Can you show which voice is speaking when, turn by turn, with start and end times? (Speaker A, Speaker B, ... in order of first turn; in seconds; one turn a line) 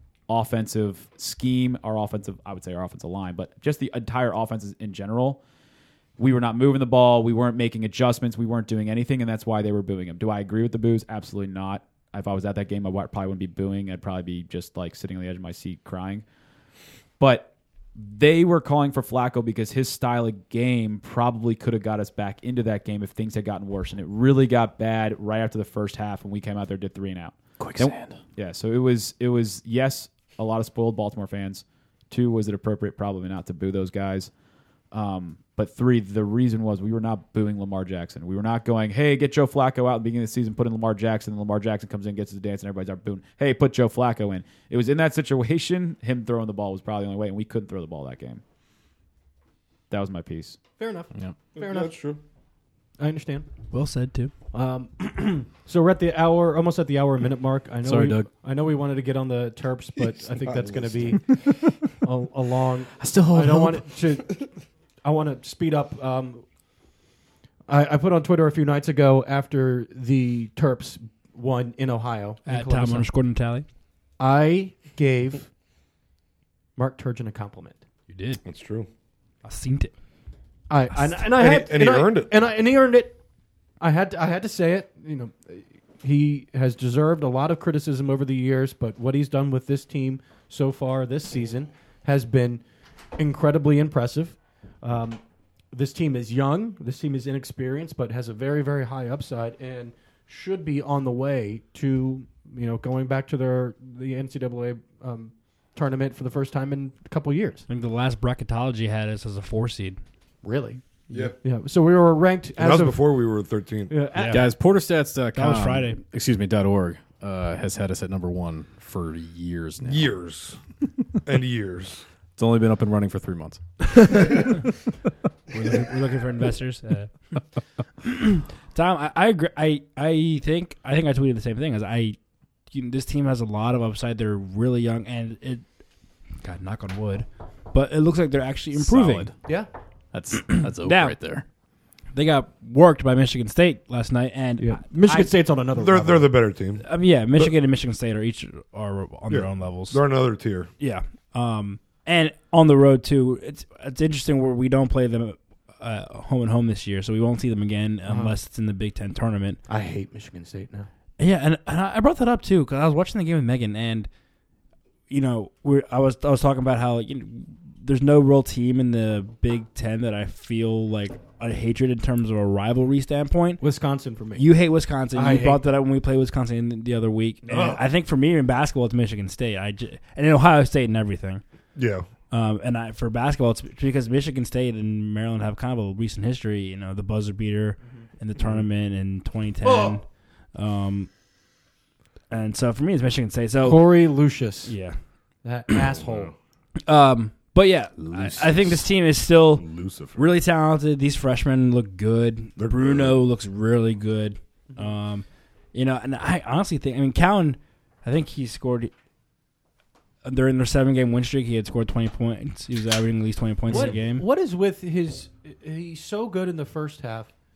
Speaker A: 0.3-5.4
Speaker A: 6.2-16.2
Speaker A: 17.2-34.3
Speaker B: 27.6-28.2
Speaker A: 34.9-48.4
Speaker A: 49.9-50.6
Speaker C: 50.8-52.1
Speaker D: 51.5-52.2
Speaker C: 53.0-53.5
Speaker E: 53.7-54.3
Speaker C: 54.5-64.5
Speaker B: 57.8-58.3
Speaker D: 60.5-61.9
Speaker B: 63.0-63.8
Speaker C: 65.0-66.5
Speaker C: 67.7-73.1
Speaker E: 72.5-73.7
Speaker C: 74.2-75.5
Speaker C: 76.8-77.8
Speaker E: 78.1-78.4
Speaker D: 78.5-78.9
Speaker E: 79.4-79.9
Speaker C: 80.7-83.2
Speaker D: 81.2-82.3
Speaker C: 83.8-92.6
Speaker C: 93.2-95.2
Speaker C: 95.7-107.7
Speaker E: 107.7-110.0
Speaker C: 110.4-110.8
Speaker D: 111.1-111.4
Speaker C: 111.4-113.2
Speaker D: 112.6-113.9
Speaker C: 113.9-114.5
Speaker E: 114.2-114.5
Speaker B: 114.3-120.1
Speaker E: 115.3-116.0
Speaker D: 119.8-120.6
Speaker D: 121.2-122.0
Speaker B: 122.4-124.4
Speaker E: 125.5-127.5
Speaker E: 128.1-135.6
Speaker E: 136.4-139.3
Speaker B: 138.7-139.6
Speaker B: 140.1-141.4
Speaker E: 140.6-141.2
Speaker E: 142.1-145.3
Speaker C: 144.6-146.3
Speaker D: 145.7-146.8
Speaker E: 146.8-150.0
Speaker D: 149.3-150.7
Speaker E: 150.8-159.6
Speaker C: 158.1-158.4
Speaker C: 159.7-160.9
Speaker E: 161.2-164.1
Speaker E: 165.1-173.6
Speaker C: 173.6-174.5
Speaker E: 174.4-181.4
Speaker C: 175.1-175.6
Speaker C: 177.5-177.7
Speaker D: 181.8-182.1
Speaker E: 182.3-191.1
Speaker C: 189.6-190.0
Speaker E: 192.3-194.1
Speaker C: 193.6-194.8
Speaker E: 194.6-195.0
Speaker C: 195.4-196.3
Speaker E: 196.9-208.9
Speaker D: 198.1-198.8
Speaker D: 199.6-200.3
Speaker D: 202.6-203.2
Speaker E: 210.2-214.2
Speaker C: 213.7-217.3